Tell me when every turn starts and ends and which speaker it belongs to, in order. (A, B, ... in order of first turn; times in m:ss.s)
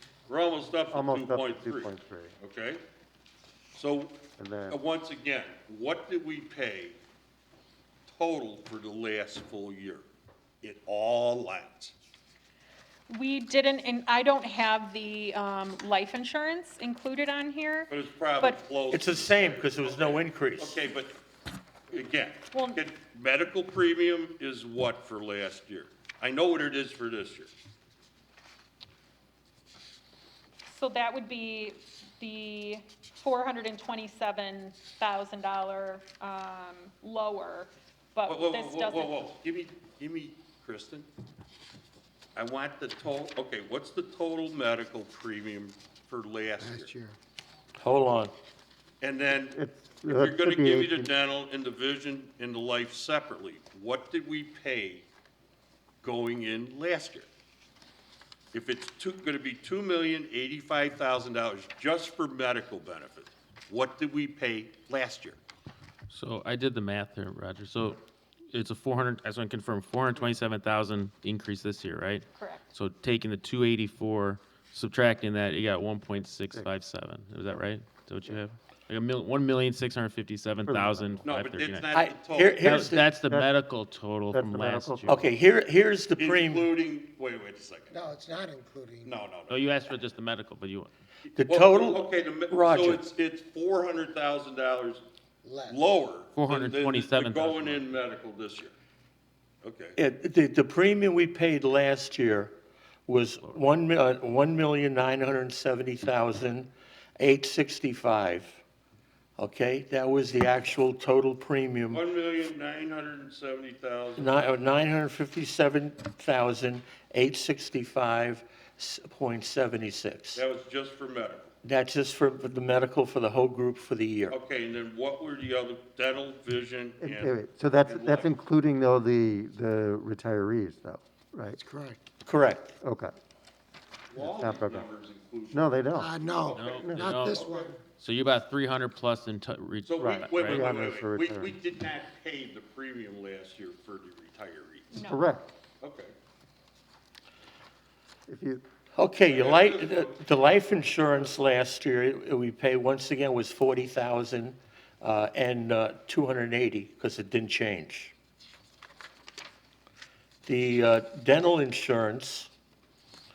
0:00.3-0:02.8 A
0:00.9-0:02.4 B
0:03.7-0:07.0 A
0:04.4-0:04.8 B
0:08.1-0:10.0 A
0:10.6-0:11.9 A
0:13.1-0:18.6 C
0:17.9-0:21.1 A
0:18.9-0:20.8 D
0:21.9-0:27.5 A
0:22.5-0:22.8 C
0:30.6-0:39.3 C
0:38.3-0:41.1 A
0:42.4-0:46.9 A
0:46.6-0:47.1 E
0:47.8-0:48.3 D
0:49.0-0:55.1 A
0:49.3-0:51.1 B
0:56.0-0:57.3 A
0:58.5-1:05.4 A
1:06.1-1:08.0 F
1:08.5-1:21.9 F
1:12.3-1:12.6 C
1:20.6-1:21.2 B
1:21.2-1:22.8 A
1:21.9-1:23.1 D
1:22.6-1:25.2 F
1:24.3-1:25.2 B
1:25.1-1:26.7 D
1:26.2-1:28.0 A
1:27.9-1:29.1 E
1:29.0-1:29.6 A
1:29.5-1:30.9 F
1:31.3-1:33.0 D
1:31.4-1:35.0 A
1:35.4-1:36.0 E
1:35.6-1:38.7 A
1:36.3-1:37.9 F
1:39.6-1:40.0 A
1:40.0-1:48.6 D
1:49.4-1:52.0 D
1:51.9-1:54.4 A
1:54.2-2:00.4 D
2:00.3-2:01.5 A
2:01.6-2:04.4 D
2:04.3-2:07.3 A
2:07.0-2:11.6 B
2:07.8-2:08.3 A
2:11.7-2:12.0 E
2:12.2-2:12.7 D
2:12.8-2:13.1 B
2:14.1-2:17.8 A
2:14.2-2:14.9 B
2:15.5-2:17.2 B
2:16.0-2:17.8 E
2:16.6-2:17.4 F
2:18.0-2:20.7 F
2:19.8-2:24.9 A
2:20.0-2:21.5 B
2:24.9-2:25.3 C
2:24.9-2:25.5 B
2:25.8-2:26.1 A
2:28.3-2:28.6 B
2:28.9-2:38.1 D
2:29.2-2:30.5 A
2:40.4-2:42.5 D